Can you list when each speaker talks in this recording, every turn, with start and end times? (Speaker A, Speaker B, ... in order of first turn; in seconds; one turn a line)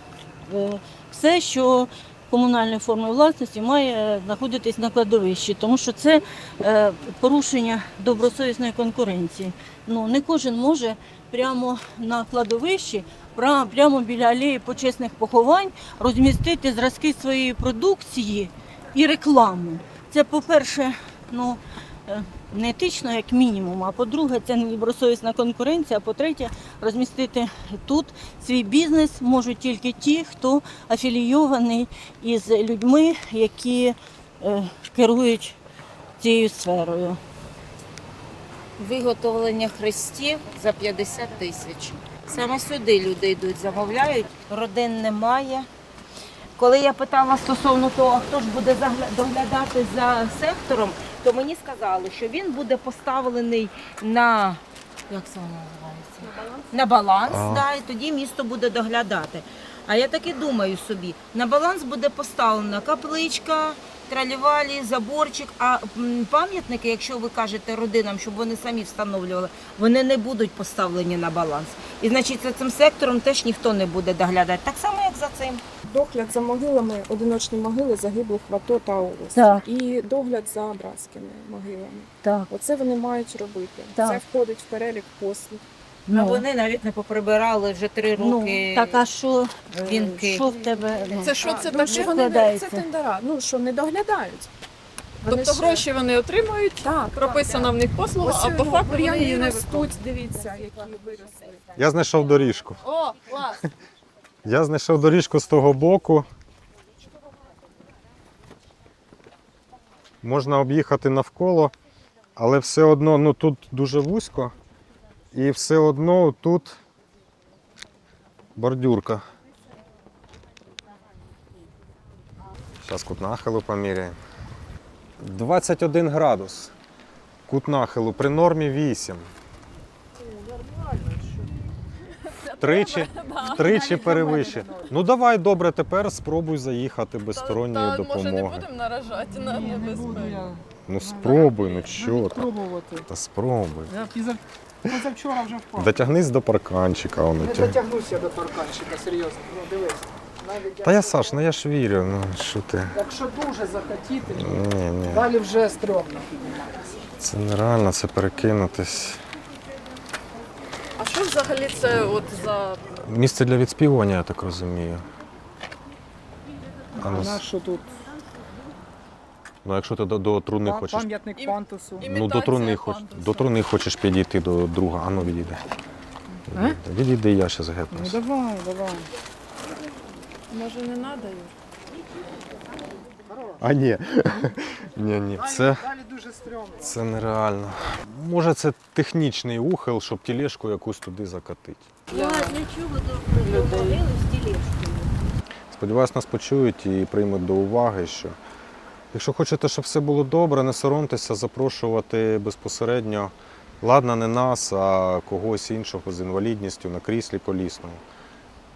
Speaker A: 0.5-35.6
Speaker A: 36.2-37.2
Speaker B: 38.8-45.7
Speaker B: 46.6-75.6
Speaker C: 56.3-56.6
Speaker D: 57.3-57.6
Speaker E: 75.8-85.6
Speaker A: 86.1-86.4
Speaker B: 86.1-89.0
Speaker A: 88.2-91.4
Speaker B: 89.8-90.5
Speaker E: 90.4-94.5
Speaker C: 91.2-92.0
Speaker A: 92.0-92.8
Speaker C: 95.2-100.0
Speaker E: 95.3-95.8
Speaker E: 96.8-101.6
Speaker D: 101.7-102.8
Speaker C: 102.8-103.6
Speaker D: 104.4-106.3
Speaker D: 110.2-111.7
Speaker D: 112.4-114.5
Speaker D: 115.3-116.8
Speaker D: 118.6-119.2
Speaker D: 122.8-124.2
Speaker D: 125.2-126.7
Speaker D: 127.5-129.3
Speaker F: 130.4-131.2
Speaker C: 132.2-134.2
Speaker D: 132.5-138.7
Speaker F: 134.0-134.7
Speaker C: 137.3-140.6
Speaker F: 139.5-143.0
Speaker D: 140.8-144.1
Speaker C: 141.6-141.9
Speaker F: 143.9-145.9
Speaker D: 145.7-147.8
Speaker F: 147.4-151.2
Speaker D: 150.8-153.0
Speaker F: 152.9-154.5
Speaker D: 154.2-155.3
Speaker F: 155.1-156.8
Speaker D: 157.2-159.2
Speaker C: 161.0-162.8
Speaker D: 162.9-165.0
Speaker D: 166.9-167.4
Speaker F: 167.0-167.9
Speaker D: 169.6-171.1
Speaker F: 170.6-172.0
Speaker C: 171.3-173.6
Speaker D: 172.0-175.6
Speaker D: 176.5-178.2
Speaker F: 177.9-179.1
Speaker C: 180.5-181.5
Speaker D: 183.5-185.9
Speaker F: 185.5-186.7
Speaker D: 186.8-191.9
Speaker A: 192.1-195.1
Speaker D: 195.7-198.3
Speaker D: 199.1-208.0